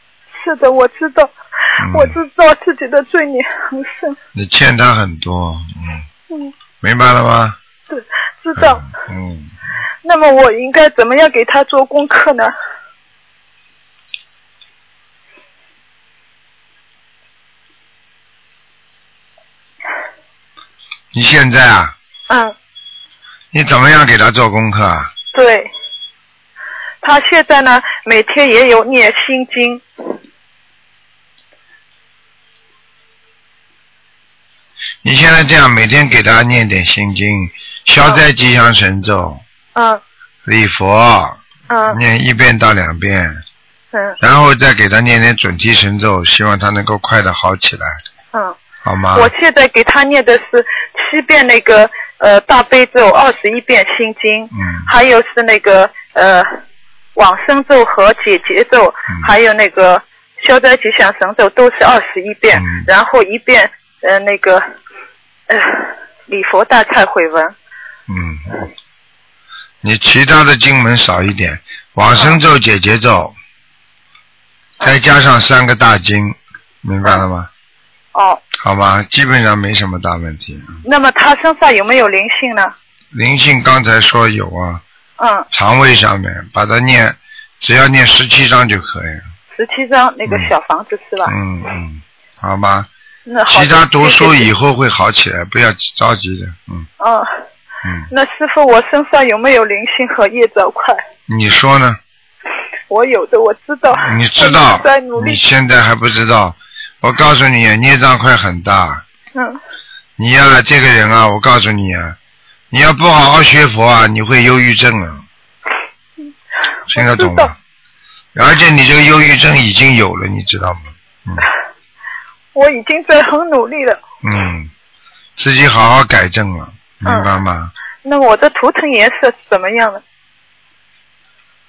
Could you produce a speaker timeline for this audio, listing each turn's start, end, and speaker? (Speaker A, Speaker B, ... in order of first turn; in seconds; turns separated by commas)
Speaker A: 0.4-1.3, Speaker B: 1.8-2.2, Speaker A: 1.9-4.2, Speaker B: 4.3-6.0, Speaker B: 6.8-7.6, Speaker A: 7.9-8.8, Speaker B: 8.6-9.5, Speaker A: 10.0-12.5, Speaker B: 21.1-21.9, Speaker A: 22.3-22.5, Speaker B: 23.5-25.1, Speaker A: 25.3-25.7, Speaker A: 27.0-29.8, Speaker B: 35.0-39.4, Speaker A: 39.7-40.0, Speaker B: 40.5-41.4, Speaker A: 41.7-42.0, Speaker B: 41.9-43.4, Speaker A: 43.9-44.2, Speaker B: 44.2-48.0, Speaker B: 48.8-49.3, Speaker A: 49.1-56.5, Speaker B: 54.5-54.9, Speaker A: 57.1-64.6, Speaker B: 62.5-62.9, Speaker A: 65.5-67.5, Speaker B: 68.1-68.6, Speaker B: 69.8-73.3, Speaker A: 72.1-72.4, Speaker B: 74.8-77.5, Speaker A: 78.1-78.4, Speaker B: 78.6-80.8, Speaker A: 80.8-82.7, Speaker B: 83.1-84.8, Speaker A: 85.2-85.5, Speaker B: 85.5-89.2, Speaker A: 89.5-91.3, Speaker B: 90.2-90.5, Speaker B: 91.2-92.9, Speaker A: 93.2-94.5, Speaker B: 93.5-96.9, Speaker A: 97.0-97.3, Speaker B: 97.8-98.1, Speaker A: 98.1-101.0, Speaker B: 101.3-102.0, Speaker A: 102.9-105.4, Speaker B: 103.9-109.0, Speaker B: 110.2-112.2, Speaker B: 112.7-115.2, Speaker B: 116.9-117.5, Speaker A: 116.9-117.5, Speaker B: 118.3-121.5, Speaker A: 122.5-124.0, Speaker B: 124.2-124.7, Speaker B: 125.4-127.7, Speaker A: 127.0-127.3, Speaker A: 128.0-130.0